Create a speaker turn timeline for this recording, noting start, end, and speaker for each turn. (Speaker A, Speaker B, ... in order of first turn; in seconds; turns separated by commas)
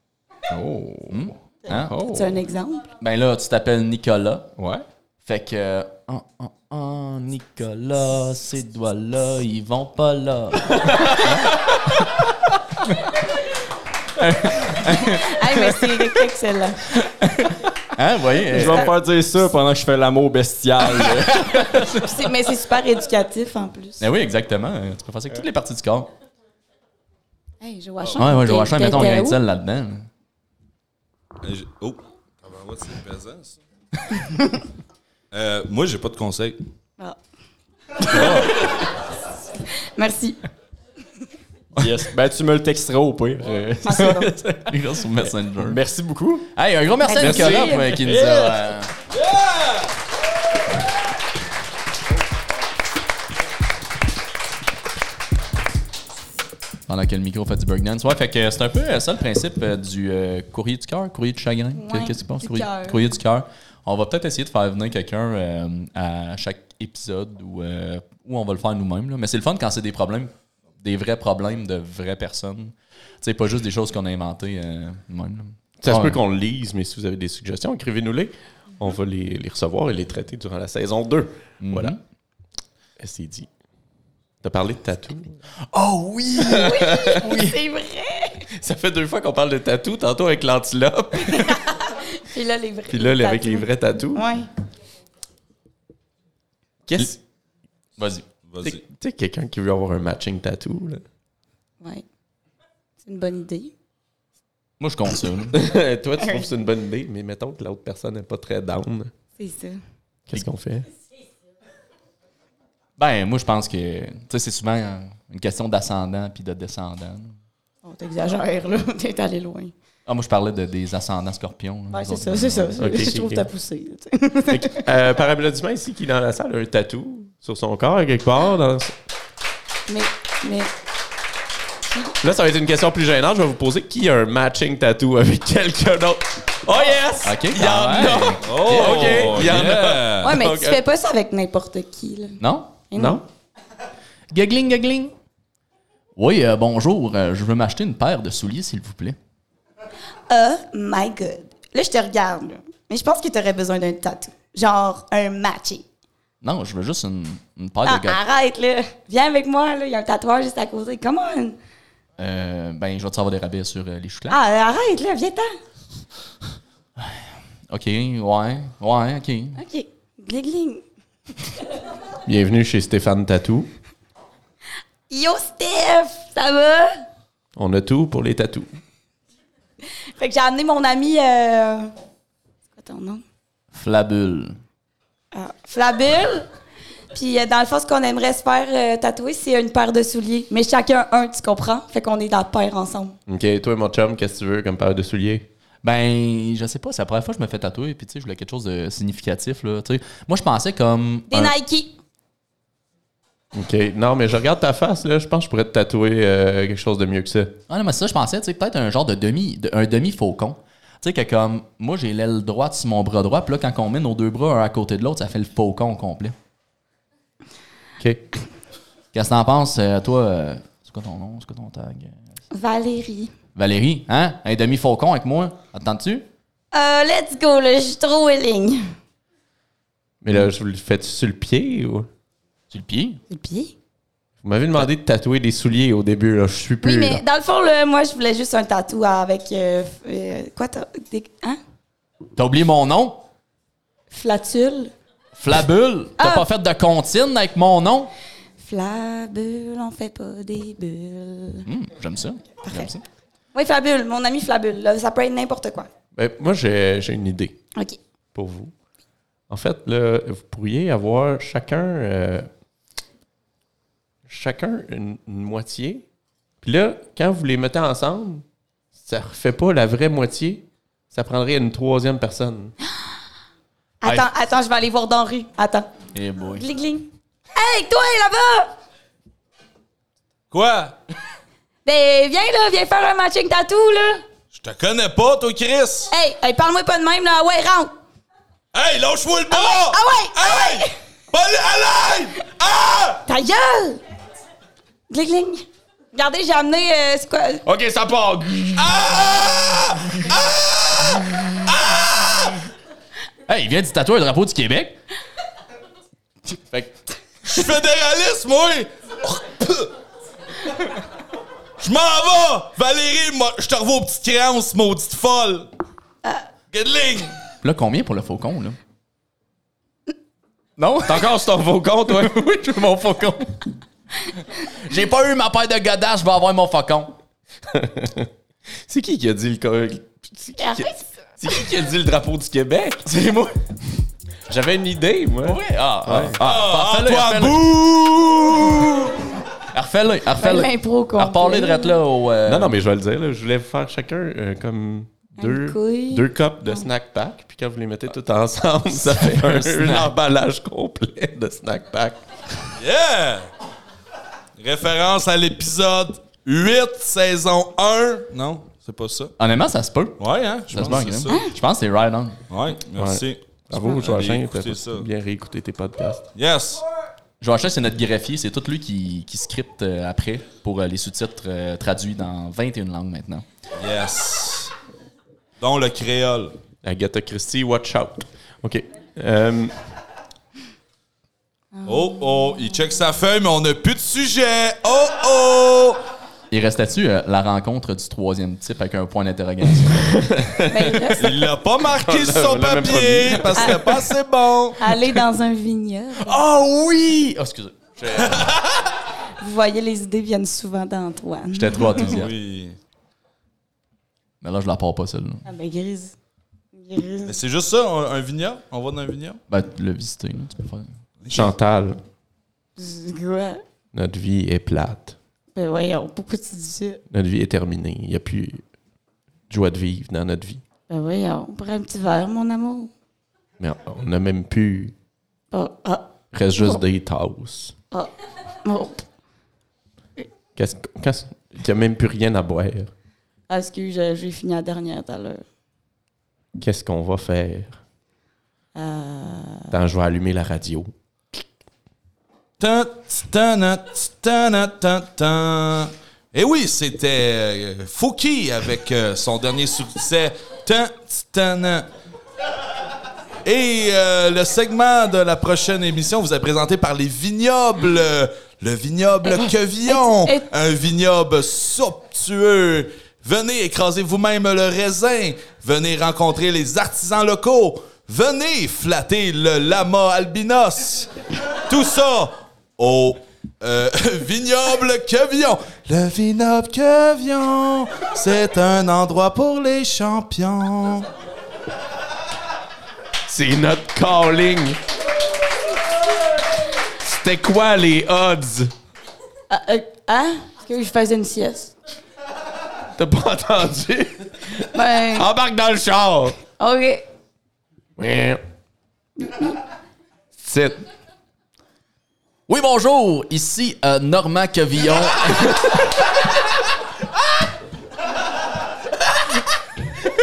Speaker A: 0.5-2.4, Speaker B: 1.1-2.0, Speaker C: 2.0-2.9, Speaker B: 3.0-4.5, Speaker A: 4.6-4.8, Speaker B: 5.2-11.4, Speaker B: 14.2-16.1, Speaker C: 14.9-16.9, Speaker B: 17.0-18.9, Speaker A: 18.5-22.0, Speaker C: 18.6-18.9, Speaker B: 21.0-21.9, Speaker C: 21.9-24.1, Speaker B: 24.0-26.1, Speaker C: 27.6-29.4, Speaker B: 28.2-30.1, Speaker D: 31.4-33.6, Speaker C: 34.2-34.6, Speaker D: 35.3-36.6, Speaker A: 38.1-38.5, Speaker C: 40.0-40.4, Speaker A: 41.8-44.8, Speaker C: 43.8-44.4, Speaker B: 44.6-45.8, Speaker A: 45.6-46.5, Speaker B: 46.5-48.9, Speaker C: 47.0-47.9, Speaker E: 47.2-47.7, Speaker A: 47.2-47.6, Speaker D: 48.0-49.9, Speaker B: 56.9-76.2, Speaker C: 61.7-63.0, Speaker E: 75.8-82.0, Speaker B: 81.6-82.0, Speaker E: 83.0-83.5, Speaker E: 84.4-85.4, Speaker B: 85.7-87.5, Speaker C: 86.4-88.5, Speaker E: 86.5-87.2, Speaker E: 88.5-91.6, Speaker C: 91.2-94.5, Speaker E: 92.9-94.3, Speaker E: 96.9-97.2, Speaker B: 98.0-98.3, Speaker D: 98.5-98.8, Speaker E: 98.6-101.0, Speaker C: 103.0-103.7, Speaker B: 104.8-105.7, Speaker E: 105.5-109.1, Speaker C: 109.4-109.8, Speaker E: 110.3-110.9, Speaker B: 113.0-117.3, Speaker C: 117.8-119.7, Speaker B: 120.0-122.9, Speaker C: 121.9-124.9, Speaker E: 122.8-123.5, Speaker E: 124.5-128.9, Speaker C: 129.9-130.7, Speaker E: 132.2-140.8, Speaker B: 137.2-139.2, Speaker D: 138.4-140.3, Speaker C: 140.2-143.2, Speaker B: 142.4-142.8, Speaker E: 142.9-143.2, Speaker B: 144.3-145.1, Speaker B: 146.2-149.2, Speaker C: 150.3-155.8, Speaker B: 156.4-158.2, Speaker C: 157.8-161.6, Speaker B: 162.2-164.4, Speaker C: 164.3-165.5, Speaker B: 167.0-169.6, Speaker C: 169.6-170.8, Speaker E: 172.2-173.7, Speaker C: 175.1-177.0, Speaker E: 177.6-178.7, Speaker C: 180.2-181.9, Speaker C: 182.8-183.2, Speaker B: 183.7-184.6, Speaker C: 185.3-186.5, Speaker C: 187.1-193.2, Speaker E: 193.3-195.5, Speaker B: 195.8-201.5, Speaker C: 201.3-202.0, Speaker E: 203.5-207.6, Speaker B: 207.7-216.3, Speaker E: 218.0-218.2, Speaker B: 219.1-222.2, Speaker C: 222.5-223.3, Speaker B: 223.5-226.2, Speaker C: 226.7-228.9, Speaker E: 230.2-232.1, Speaker B: 232.7-233.2, Speaker C: 233.3-233.7, Speaker E: 234.4-237.2, Speaker C: 236.8-241.6, Speaker B: 242.3-243.2, Speaker C: 244.1-244.9, Speaker B: 245.4-248.1, Speaker C: 246.2-246.4, Speaker C: 248.6-251.7, Speaker B: 251.7-253.0, Speaker C: 252.6-252.9, Speaker C: 253.5-255.9, Speaker E: 256.1-257.6, Speaker E: 258.3-258.7, Speaker E: 259.5-262.5, Speaker E: 264.3-266.0, Speaker E: 266.6-268.4, Speaker E: 269.0-272.8, Speaker C: 274.0-275.9, Speaker B: 276.1-276.6, Speaker C: 276.6-278.7, Speaker D: 280.5-280.9, Speaker C: 281.8-284.2, Speaker D: 284.5-286.1, Speaker C: 286.1-287.9, Speaker D: 288.7-293.2, Speaker C: 289.5-290.9, Speaker C: 293.2-294.0, Speaker C: 295.1-297.6, Speaker E: 297.7-298.7, Speaker D: 298.8-302.6, Speaker B: 303.5-305.0, Speaker D: 307.4-309.9, Speaker D: 311.8-315.7, Speaker D: 316.7-317.3, Speaker B: 317.6-318.8, Speaker B: 320.8-323.7, Speaker E: 321.1-322.4, Speaker B: 324.8-327.2, Speaker E: 327.7-328.3, Speaker E: 328.9-333.1, Speaker C: 330.6-331.1, Speaker B: 333.0-333.6, Speaker E: 334.5-336.4, Speaker B: 335.4-337.7, Speaker D: 336.4-339.1, Speaker B: 339.7-342.7, Speaker C: 340.4-342.0, Speaker E: 342.4-352.2, Speaker C: 345.4-346.9, Speaker B: 349.2-350.1, Speaker D: 352.8-353.5, Speaker D: 354.6-359.3, Speaker B: 359.4-360.2, Speaker D: 360.2-361.4, Speaker B: 360.7-362.4, Speaker D: 362.5-365.1, Speaker E: 363.0-366.3, Speaker D: 366.4-366.8, Speaker B: 367.4-373.4, Speaker D: 373.8-374.7, Speaker D: 375.6-376.5, Speaker E: 376.8-379.8, Speaker C: 381.8-382.7, Speaker D: 381.8-386.0, Speaker B: 386.5-390.3, Speaker E: 390.0-391.1, Speaker C: 390.7-391.5, Speaker D: 391.2-394.8, Speaker E: 391.8-394.1, Speaker C: 394.8-396.4, Speaker B: 396.2-398.5, Speaker D: 398.2-398.6, Speaker C: 399.4-402.0, Speaker B: 401.5-402.3, Speaker D: 401.9-402.8, Speaker B: 404.4-405.4, Speaker C: 405.4-406.1, Speaker C: 406.7-407.4, Speaker D: 407.2-409.4, Speaker B: 409.5-410.9, Speaker D: 411.2-411.5, Speaker E: 411.3-412.0, Speaker C: 412.8-413.6, Speaker E: 413.9-415.1, Speaker C: 415.6-417.0, Speaker E: 417.1-418.6, Speaker E: 419.5-420.6, Speaker C: 420.9-422.9, Speaker E: 423.6-424.9, Speaker C: 425.5-426.8, Speaker E: 426.3-427.7, Speaker C: 428.6-429.1, Speaker E: 430.6-432.9, Speaker C: 433.5-435.4, Speaker E: 436.6-437.8, Speaker C: 438.7-439.7, Speaker E: 439.7-440.9, Speaker D: 442.6-451.9, Speaker D: 453.4-471.1, Speaker C: 459.9-460.4, Speaker D: 471.7-481.1, Speaker E: 483.3-484.8, Speaker E: 487.0-488.7, Speaker C: 489.5-491.7, Speaker E: 492.9-496.4, Speaker C: 494.6-495.3, Speaker C: 496.6-497.1, Speaker E: 498.0-498.4, Speaker C: 499.2-499.6, Speaker E: 500.4-500.8, Speaker B: 502.5-505.8